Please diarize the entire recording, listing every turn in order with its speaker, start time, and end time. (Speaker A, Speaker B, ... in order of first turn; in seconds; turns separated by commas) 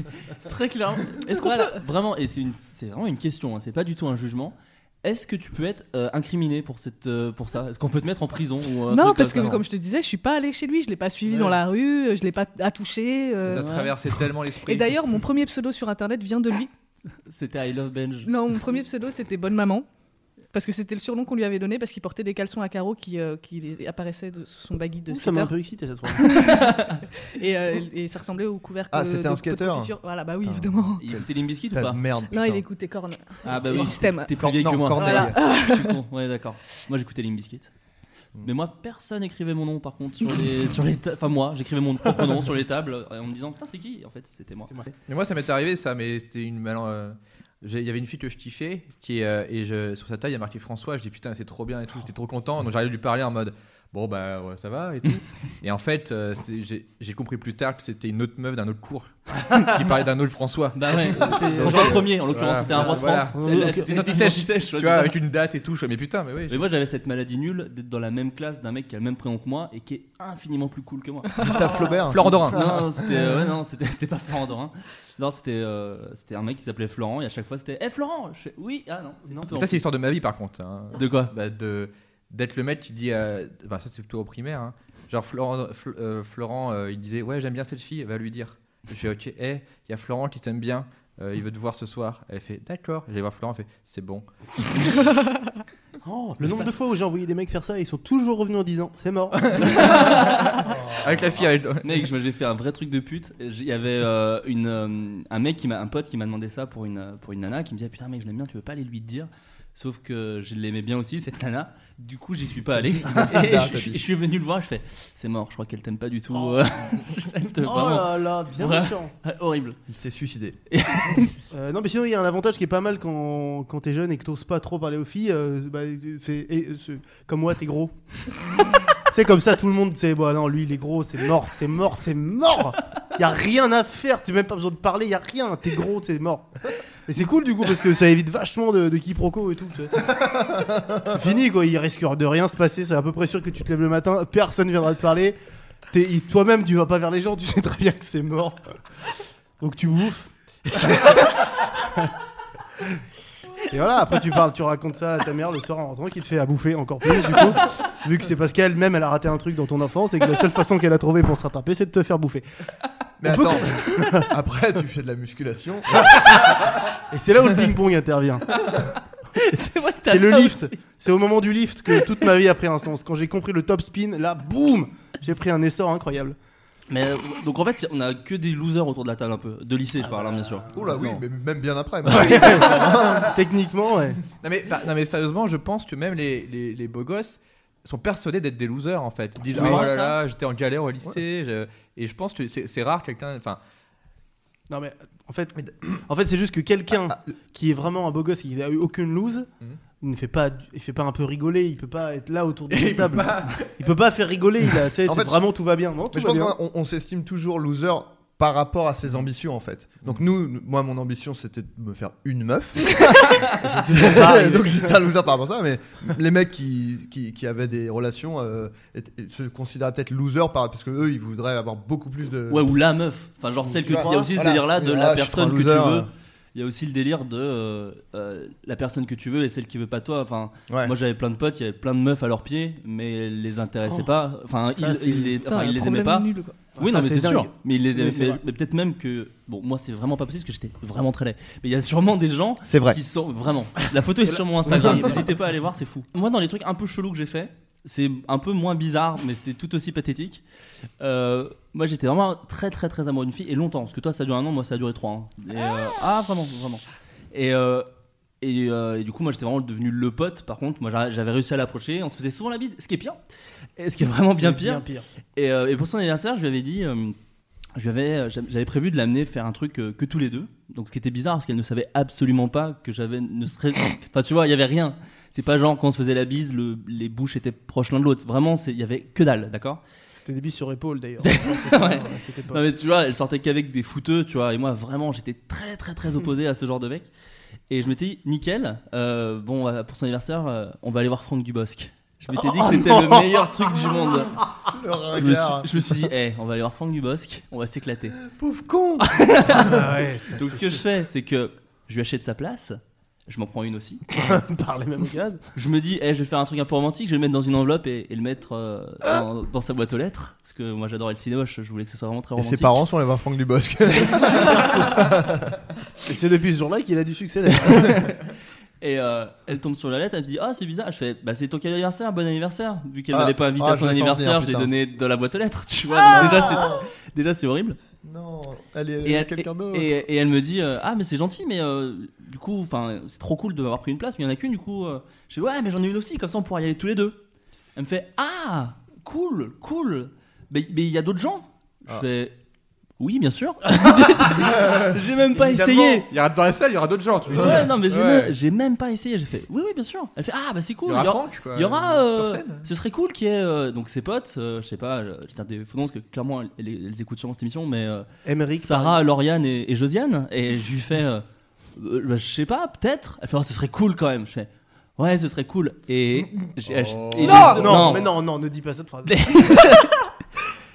Speaker A: 0.4-9.6, Speaker B: 1.3-1.8, Speaker B: 8.9-13.8, Speaker C: 11.3-11.6, Speaker C: 13.4-15.2, Speaker A: 13.5-13.9, Speaker B: 14.5-16.7, Speaker A: 17.1-18.3, Speaker B: 18.2-19.8, Speaker B: 20.5-25.5, Speaker D: 25.1-26.7, Speaker B: 26.2-31.0, Speaker A: 26.5-26.8, Speaker E: 28.9-32.6, Speaker A: 31.0-32.0, Speaker B: 32.3-36.0, Speaker A: 33.4-37.7, Speaker E: 34.4-35.4, Speaker A: 38.4-44.7, Speaker C: 45.1-66.6, Speaker A: 60.7-65.2, Speaker D: 61.1-62.1, Speaker E: 61.5-62.1, Speaker E: 62.7-63.0, Speaker D: 62.7-64.0, Speaker A: 66.5-79.8, Speaker E: 71.4-73.4, Speaker C: 72.1-72.7, Speaker C: 79.5-94.2, Speaker A: 80.9-81.3, Speaker D: 96.0-100.0, Speaker C: 99.4-102.0, Speaker A: 99.7-100.6, Speaker E: 100.7-101.4, Speaker A: 101.8-119.8, Speaker E: 112.8-114.0, Speaker D: 116.3-116.6, Speaker D: 117.6-119.1, Speaker E: 119.9-120.6, Speaker A: 120.7-121.3, Speaker D: 121.5-136.5, Speaker D: 137.1-140.1, Speaker E: 140.2-141.1, Speaker D: 141.1-145.4, Speaker D: 145.9-148.6, Speaker D: 149.6-152.1, Speaker D: 153.7-162.4, Speaker E: 163.2-166.5, Speaker D: 163.2-164.3, Speaker D: 166.1-166.5, Speaker D: 167.1-168.7, Speaker A: 169.3-170.8, Speaker D: 170.1-176.3, Speaker A: 176.9-180.7, Speaker D: 180.0-181.0, Speaker E: 180.7-183.3, Speaker D: 182.1-184.2, Speaker A: 182.1-182.4, Speaker C: 184.4-193.6, Speaker D: 189.5-190.2, Speaker A: 189.5-189.9, Speaker E: 189.6-189.8, Speaker D: 194.7-199.5, Speaker D: 200.0-206.5, Speaker C: 202.9-203.7, Speaker E: 205.0-205.4, Speaker E: 206.1-213.1, Speaker D: 213.6-215.0, Speaker E: 213.8-222.8, Speaker A: 222.5-250.4, Speaker D: 223.6-224.3, Speaker E: 223.8-226.1, Speaker E: 230.7-230.9, Speaker D: 234.8-235.3, Speaker B: 235.4-236.6, Speaker D: 236.8-238.4, Speaker E: 242.7-243.0, Speaker D: 244.2-245.3, Speaker A: 251.0-257.9, Speaker A: 258.4-263.2, Speaker A: 263.8-267.1, Speaker D: 264.3-265.1, Speaker A: 267.8-279.8, Speaker D: 280.1-282.6, Speaker A: 281.2-287.1, Speaker A: 287.7-294.4, Speaker D: 292.4-293.9, Speaker E: 294.7-295.8, Speaker A: 295.1-298.2, Speaker E: 298.4-299.0, Speaker A: 299.0-304.0, Speaker D: 299.4-300.9, Speaker D: 304.1-305.4, Speaker A: 305.5-312.8, Speaker E: 312.4-315.5, Speaker D: 314.2-315.0, Speaker D: 316.1-318.2, Speaker A: 317.6-318.3, Speaker A: 318.8-327.8, Speaker E: 323.1-324.7, Speaker E: 326.1-326.9, Speaker B: 326.1-326.7, Speaker E: 328.0-330.0, Speaker A: 329.0-337.2, Speaker A: 337.8-342.4, Speaker A: 343.0-346.1, Speaker C: 345.4-348.3, Speaker A: 347.3-358.1, Speaker C: 350.9-352.7, Speaker D: 358.2-359.0, Speaker A: 358.6-361.2, Speaker A: 361.8-368.1, Speaker C: 366.6-367.9, Speaker B: 367.2-367.6, Speaker D: 367.3-369.6, Speaker A: 369.1-369.9